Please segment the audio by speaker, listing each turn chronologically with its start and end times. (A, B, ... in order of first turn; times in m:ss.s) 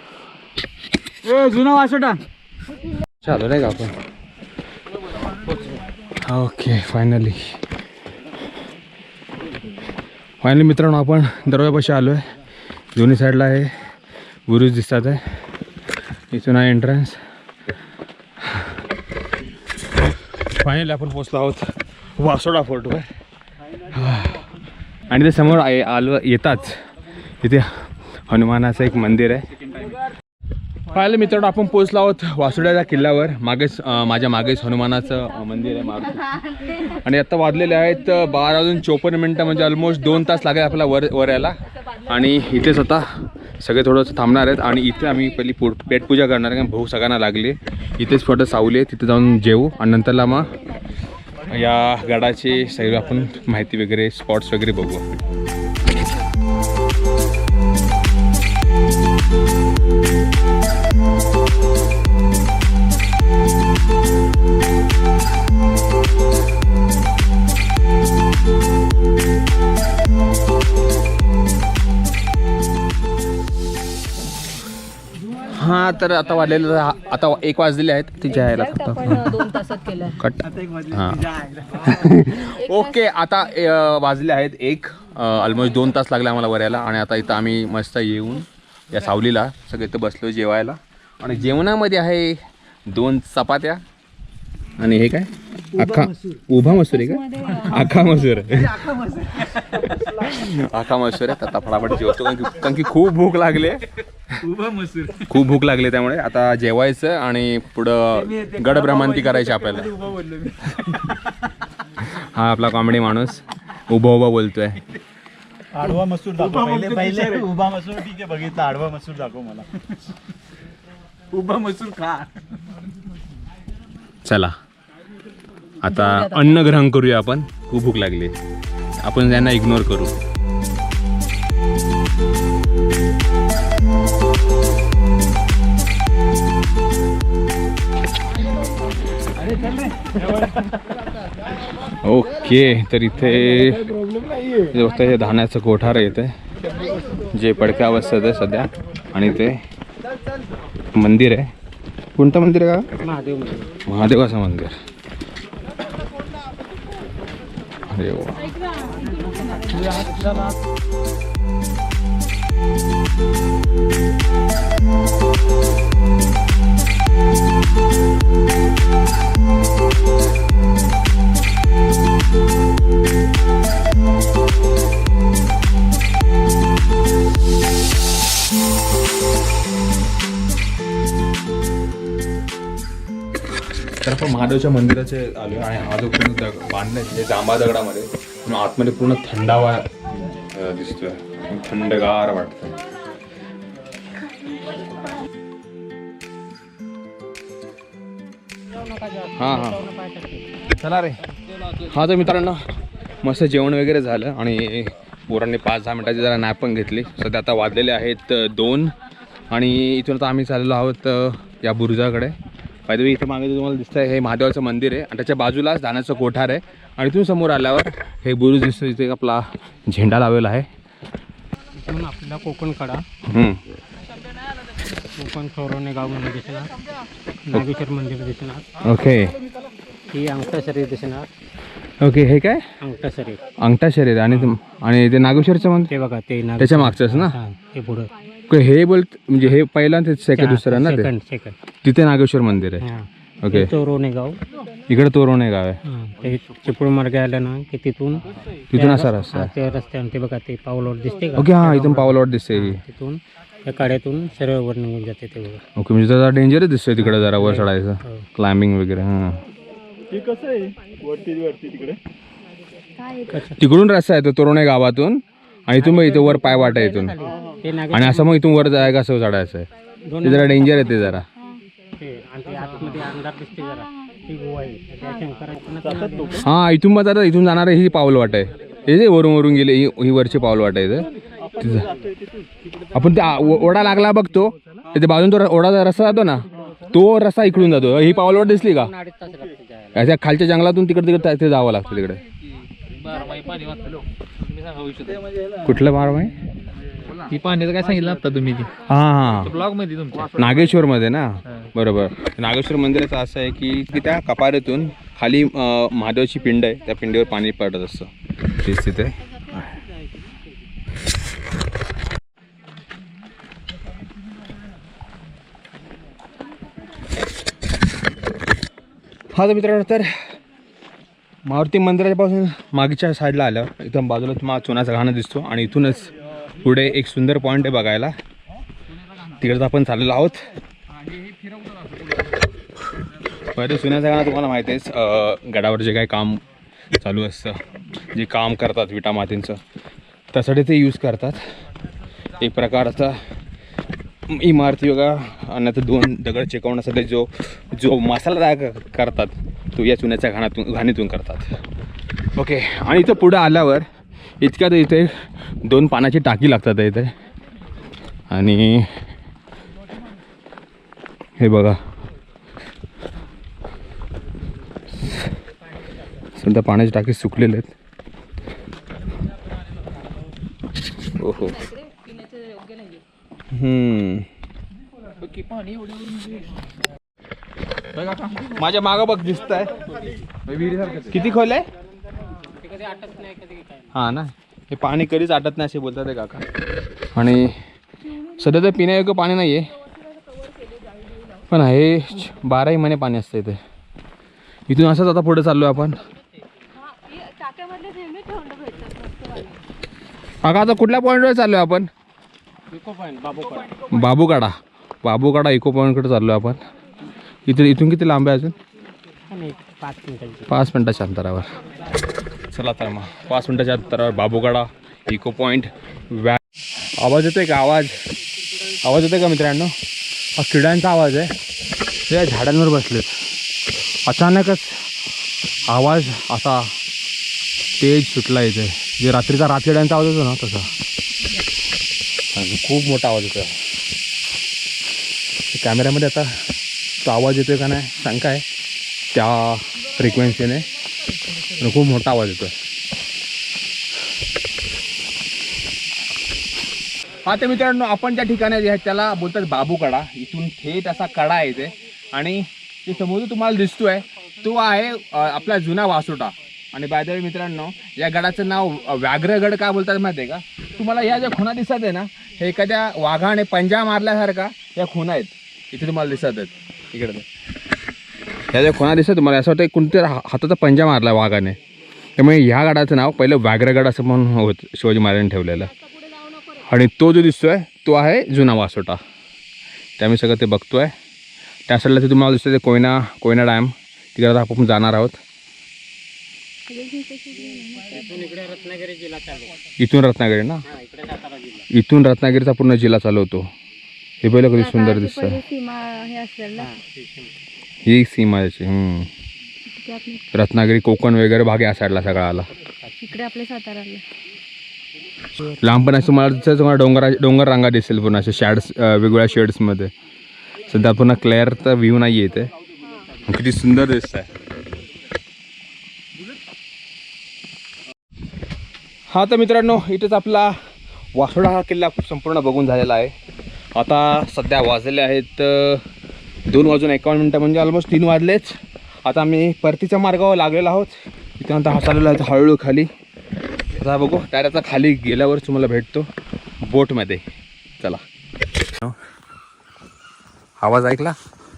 0:01.2-0:02.2 A
0:03.2-0:04.0 B
0:06.2-0:07.6 B
0:10.4-0:12.2 B
0:12.9-0:13.7 B
0:14.5-0:15.2 B
0:16.3-0:17.2 B
0:18.4-0:18.8 B
0:20.4-0:23.1 B
0:23.9-0:24.4 B
0:25.1-0:26.7 B
0:27.4-0:27.7 B
0:28.3-0:29.5 B
0:30.9-0:43.1 B
0:43.6-0:50.6 B
0:51.5-0:55.1 B
1:15.5-1:19.3 B
1:18.3-1:20.2 C
1:20.2-1:21.2 B
1:20.4-1:21.9 A
1:21.8-1:33.8 B
1:22.5-1:22.9 C
1:34.8-1:38.9 B
1:35.7-1:36.4 A
1:36.6-1:38.4 C
1:38.5-1:40.4 A
1:40.0-1:44.3 B
1:44.4-1:45.3 A
1:45.3-1:49.9 B
1:48.2-1:51.1 A
1:52.1-1:54.8 B
1:55.7-1:59.7 A
2:01.3-2:02.3 A
2:04.2-2:04.6 B
2:05.8-2:08.3 B
2:05.9-2:06.4 C
2:09.0-2:10.1 B
2:19.4-2:20.6 A
2:22.0-2:23.9 B
2:23.8-2:24.7 A
2:24.7-2:26.3 B
2:27.3-2:29.6 B
2:30.9-2:31.5 B
2:32.2-2:32.9 B
2:33.0-2:33.7 D
2:33.8-2:34.7 B
2:37.9-2:38.5 B
2:38.8-2:39.8 C
2:39.7-2:40.4 A
3:04.0-3:12.7 B
3:18.8-3:20.4 D
3:19.4-3:19.8 B
3:20.7-3:21.2 B
3:21.8-3:22.6 B
3:23.2-3:28.9 B
3:29.5-3:32.4 B
3:32.9-3:40.7 B
3:41.8-3:43.0 D
3:43.2-3:43.6 B
3:45.2-3:46.7 D
3:47.5-3:48.7 D
3:48.8-3:49.4 B
3:50.1-3:51.3 D
3:52.0-3:52.6 B
3:52.8-3:53.4 D
3:53.6-3:55.9 B
3:55.9-3:58.1 D
3:56.6-3:57.4 B
3:58.5-4:01.1 B
4:00.4-4:01.6 D
4:01.8-4:02.8 B
4:02.8-4:04.4 D
4:03.4-4:03.7 B
4:04.9-4:05.8 B
4:05.8-4:08.2 D
4:08.7-4:09.5 B
4:08.7-4:15.6 D
4:11.4-4:12.8 B
4:15.8-4:19.4 B
4:17.0-4:18.2 D
4:20.1-4:22.0 A
4:23.0-4:23.5 C
4:23.6-4:27.1 B
4:25.8-4:28.4 D
4:27.9-4:29.7 B
4:30.1-4:30.7 D
4:30.2-4:31.2 B
4:32.0-4:36.4 D
4:36.4-4:41.1 B
4:41.4-4:42.1 A
4:41.6-4:41.9 B
4:42.9-4:48.9 B
4:48.3-4:50.0 D
4:49.9-4:52.2 B
4:53.0-4:54.0 E
4:54.5-4:55.2 E
4:55.2-4:55.7 A
4:55.6-4:56.3 B
4:57.2-4:58.7 E
4:58.9-4:59.6 B
4:59.4-5:00.5 E
5:00.3-5:09.8 B
5:19.3-5:20.1 B
5:21.4-5:28.1 B
5:29.4-5:30.4 B
5:33.5-5:36.4 B
5:37.0-5:37.6 B
5:38.1-5:39.6 B
5:40.3-5:41.4 B
5:42.4-5:43.2 B
5:44.3-5:51.6 B
5:52.4-5:53.8 B
5:54.4-5:55.1 B
5:55.6-5:57.1 B
5:58.3-5:58.9 B
6:01.4-6:01.8 B
6:06.4-6:07.7 B
6:11.0-6:11.7 B
6:11.9-6:12.7 C
6:13.5-6:14.3 B
6:18.3-6:19.8 B
6:20.6-6:21.7 B
6:22.5-6:23.9 D
6:23.9-6:26.5 B
6:27.1-6:27.5 B
6:28.4-6:29.7 B
6:31.5-6:33.6 B
6:34.7-6:36.0 B
6:37.1-6:39.2 C
6:40.4-6:41.9 B
6:42.7-6:43.7 D
6:43.7-6:46.6 B
6:47.4-6:48.5 B
6:49.3-6:50.5 D
6:50.5-6:51.5 B
6:52.5-6:56.4 B
6:57.0-6:57.9 B
6:58.8-6:59.7 B
7:00.4-7:01.3 B
7:02.1-7:03.1 B
7:04.0-7:04.8 B
7:05.7-7:06.7 B
7:07.8-7:10.7 B
7:12.3-7:13.6 B
7:15.5-7:16.3 B
7:17.0-7:18.4 B
7:19.1-7:20.7 B
7:21.6-7:22.5 B
7:27.2-7:47.2 B
7:48.5-7:51.6 B
7:52.2-7:55.7 B
7:56.5-7:59.0 B
8:00.0-8:00.9 B
8:01.7-8:05.2 B
8:06.7-8:08.0 C
8:07.8-8:09.6 D
8:09.8-8:10.6 B
8:10.7-8:11.7 D
8:11.7-8:13.5 B
8:14.2-8:15.4 B
8:14.4-8:16.7 C
8:16.6-8:17.3 D
8:17.8-8:19.1 B
8:19.8-8:20.3 C
8:20.3-8:22.5 B
8:23.0-8:24.0 C
8:25.5-8:29.9 B
8:30.7-8:32.5 B
8:33.2-8:34.3 B
8:39.1-8:40.6 B
8:41.1-8:43.1 B
8:43.7-8:45.8 B
8:46.5-8:52.9 B
8:53.7-8:56.1 B
8:56.6-8:57.2 B
8:58.6-8:59.0 B
9:00.6-9:01.2 B